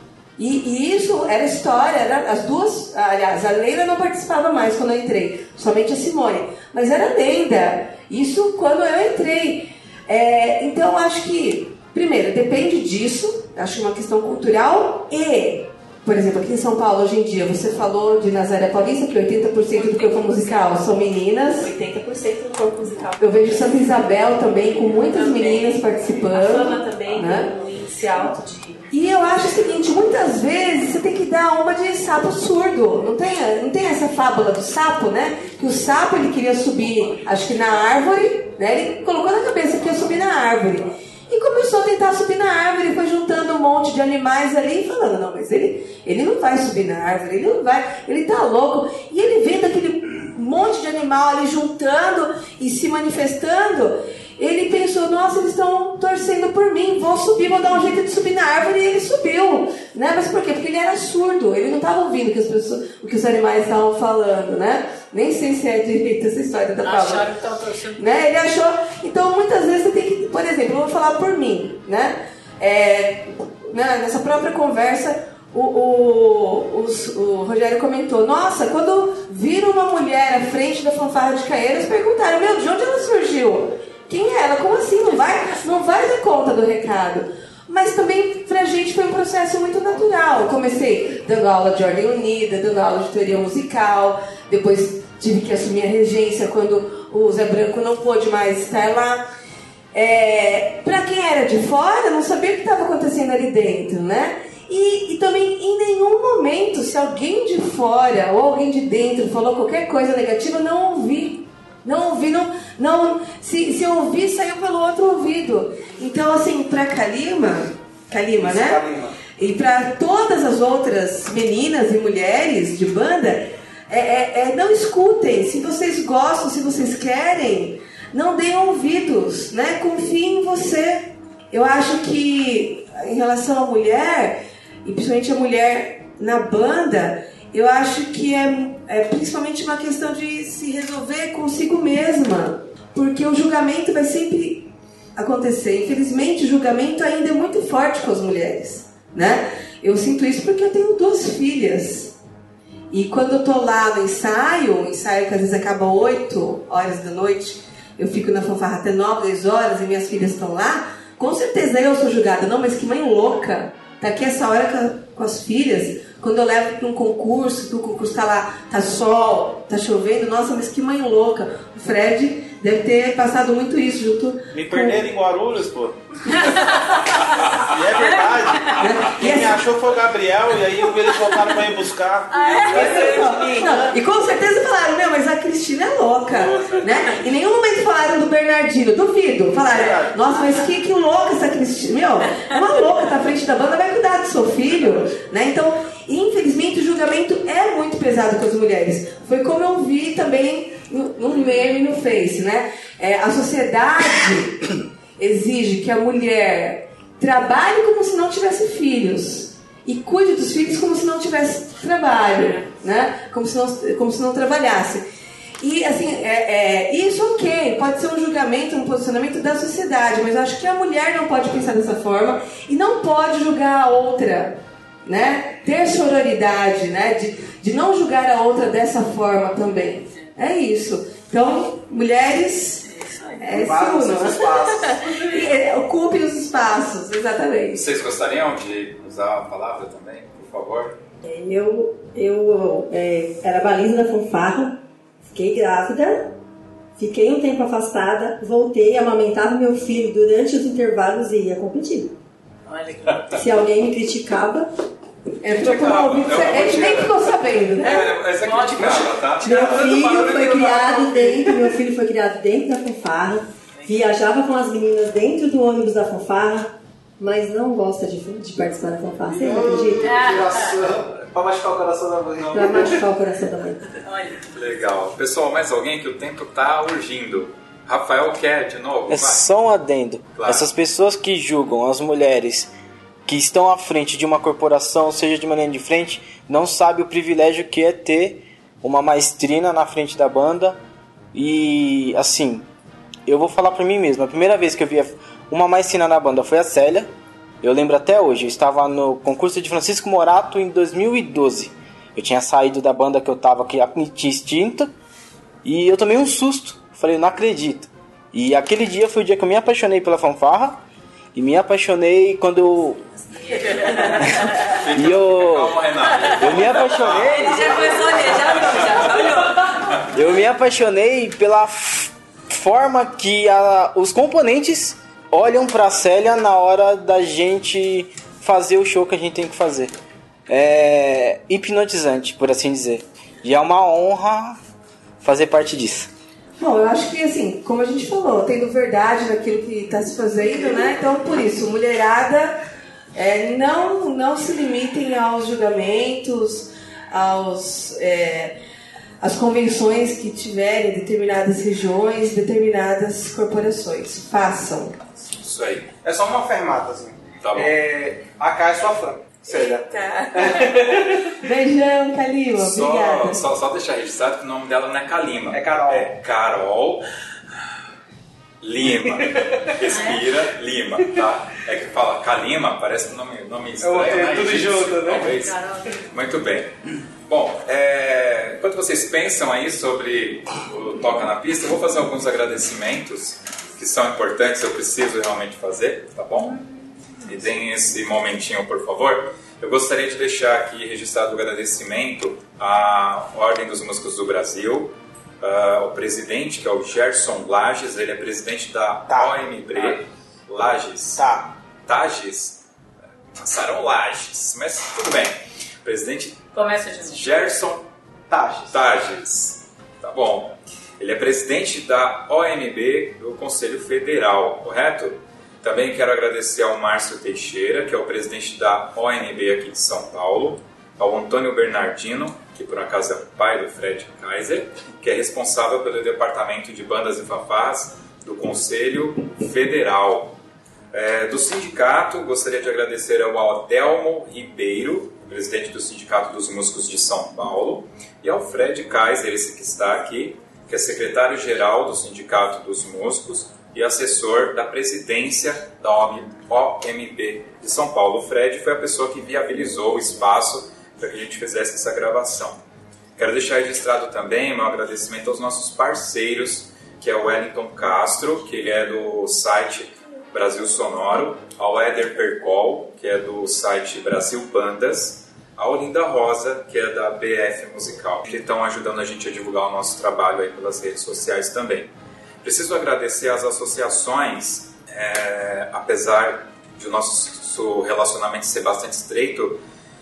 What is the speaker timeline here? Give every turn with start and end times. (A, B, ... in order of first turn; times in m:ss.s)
0:00.4-0:21.7 A
0:19.8-0:20.9 B
0:21.5-0:24.0 B
0:23.2-0:27.5 A
0:24.5-0:28.9 B
0:28.9-1:07.3 A
1:06.8-1:08.1 C
1:08.0-1:39.2 A
1:39.9-1:58.9 A
1:58.4-1:59.2 D
1:59.4-2:32.2 A
2:32.9-2:55.1 A
2:54.5-2:56.7 E
2:56.3-2:57.4 C
2:57.3-3:04.0 E
2:58.5-2:58.8 C
2:58.8-2:59.7 A
3:01.1-3:01.5 C
3:02.3-3:03.6 C
3:02.5-3:03.1 B
3:02.6-3:35.0 A
3:06.4-3:06.9 E
3:09.7-3:10.2 E
3:32.3-3:32.7 B
3:35.6-3:52.9 A
3:52.9-3:53.6 C
3:53.4-3:57.8 A
3:53.6-3:54.9 D
3:54.6-3:55.3 C
3:57.7-4:01.0 F
4:01.2-4:06.4 G
4:07.0-4:12.2 G
4:12.7-4:13.4 C
4:13.4-4:14.7 G
4:15.4-4:18.1 A
4:15.6-4:21.6 F
4:18.4-4:19.8 C
4:19.4-4:30.2 G
4:30.0-4:30.8 C
4:30.1-4:32.6 D
4:32.5-4:33.8 G
4:34.0-4:34.4 C
4:34.5-4:39.5 F
4:39.1-4:42.7 H
4:40.3-4:40.7 F
4:43.3-4:50.8 H
4:51.3-4:52.7 H
4:53.3-4:57.1 H
4:57.6-5:04.9 H
5:05.6-5:10.8 H
5:11.3-5:13.0 H
5:13.1-5:14.6 B
5:13.7-5:14.5 C
5:14.2-5:17.8 H
5:14.6-5:17.6 F
5:17.0-5:20.0 B
5:17.3-5:19.3 C
5:18.2-5:19.2 F
5:20.1-5:29.9 H
5:30.5-5:34.6 H
5:35.2-5:36.1 H
5:36.6-5:42.6 A
5:43.2-5:48.6 A
5:49.2-5:55.0 A
5:55.4-5:55.9 F
5:56.0-5:59.8 D
5:57.4-5:57.7 F
5:59.5-6:03.4 A
6:00.4-6:00.7 D
6:02.6-6:07.1 F
6:05.5-6:06.1 D
6:08.6-6:16.7 F
6:09.8-6:10.3 C
6:13.8-6:15.2 D
6:14.2-6:14.9 E
6:15.3-6:15.8 B
6:17.3-6:26.7 F
6:27.2-6:41.2 F
6:39.1-6:40.0 E
6:41.2-6:41.5 E
6:41.8-6:42.6 F
6:43.3-6:46.5 F
6:46.5-6:47.5 C
6:47.0-6:47.9 F
6:48.7-7:10.4 F
7:10.9-7:32.6 F
7:33.2-7:51.9 F
7:52.4-7:59.6 F